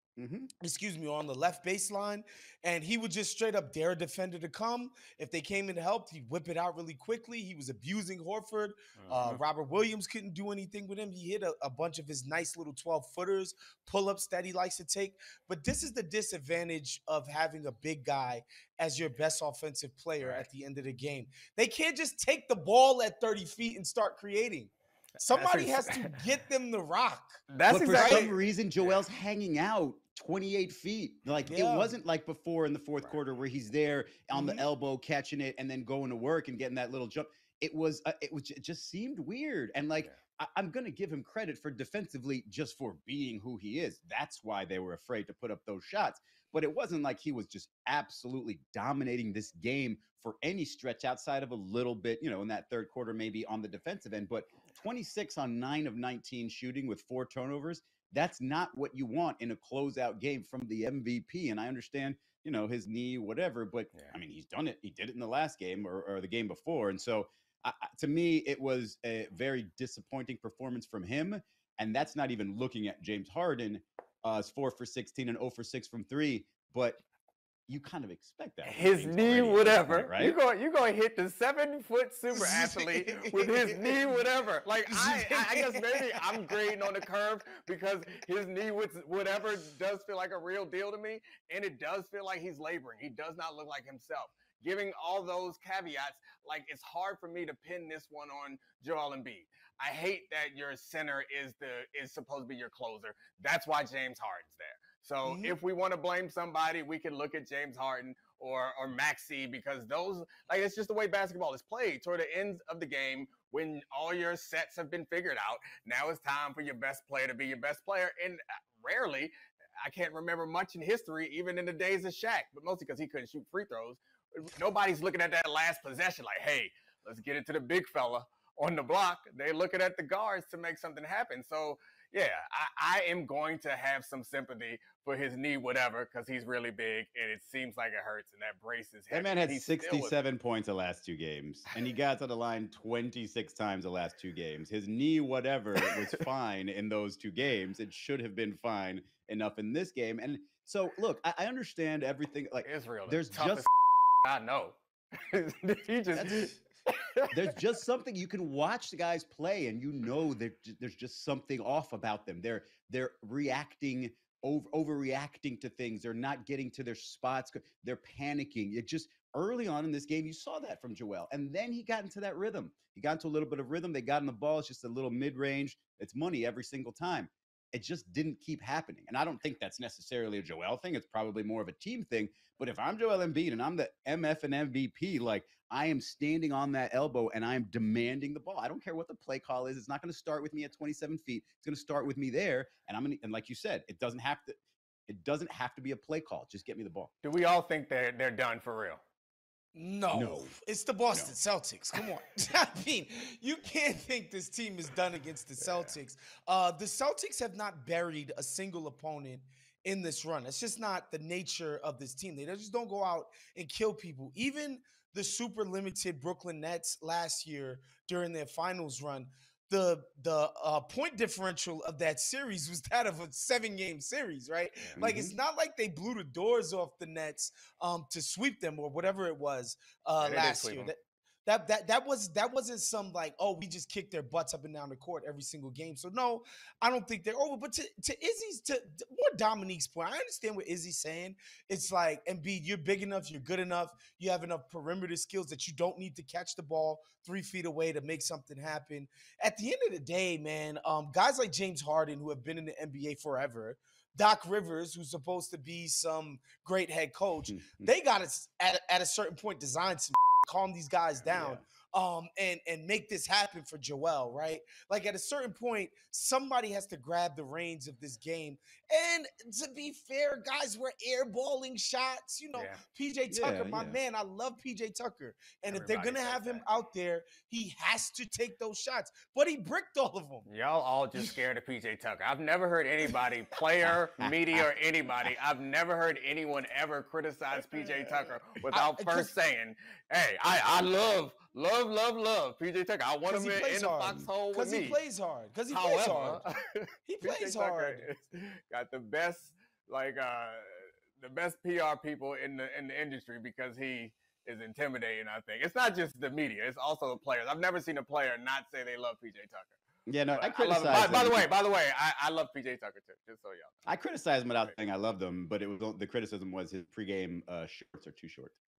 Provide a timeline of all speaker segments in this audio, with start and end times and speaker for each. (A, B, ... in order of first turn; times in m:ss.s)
0:00.2-0:00.5 A
0:00.6-0:28.3 B
0:09.0-0:09.4 C
0:20.2-0:20.4 C
0:25.3-0:26.2 C
0:27.5-0:29.0 C
0:27.7-1:17.0 A
0:31.5-0:31.9 B
0:34.3-0:34.6 B
1:17.7-1:20.4 A
1:18.6-2:20.1 C
1:22.3-1:24.2 B
1:24.9-1:26.8 B
1:45.2-1:45.6 B
2:19.1-2:33.6 A
2:32.6-2:37.6 C
2:36.1-2:36.5 A
2:37.3-3:14.6 A
3:15.1-3:17.1 A
3:17.2-3:19.0 C
3:19.7-4:40.4 B
3:20.1-3:20.5 A
3:45.0-3:45.4 A
3:50.2-3:50.9 C
4:17.5-4:17.9 A
4:21.3-4:21.6 A
4:32.5-4:32.8 C
4:33.3-4:34.0 A
4:35.7-4:36.6 C
4:40.5-4:55.0 C
4:43.8-4:44.6 A
4:47.7-4:48.1 B
4:48.7-4:49.3 B
4:53.3-4:56.4 B
4:55.7-5:09.8 C
4:57.0-4:58.1 B
5:10.1-5:11.5 A
5:10.4-5:13.7 C
5:13.8-5:18.6 A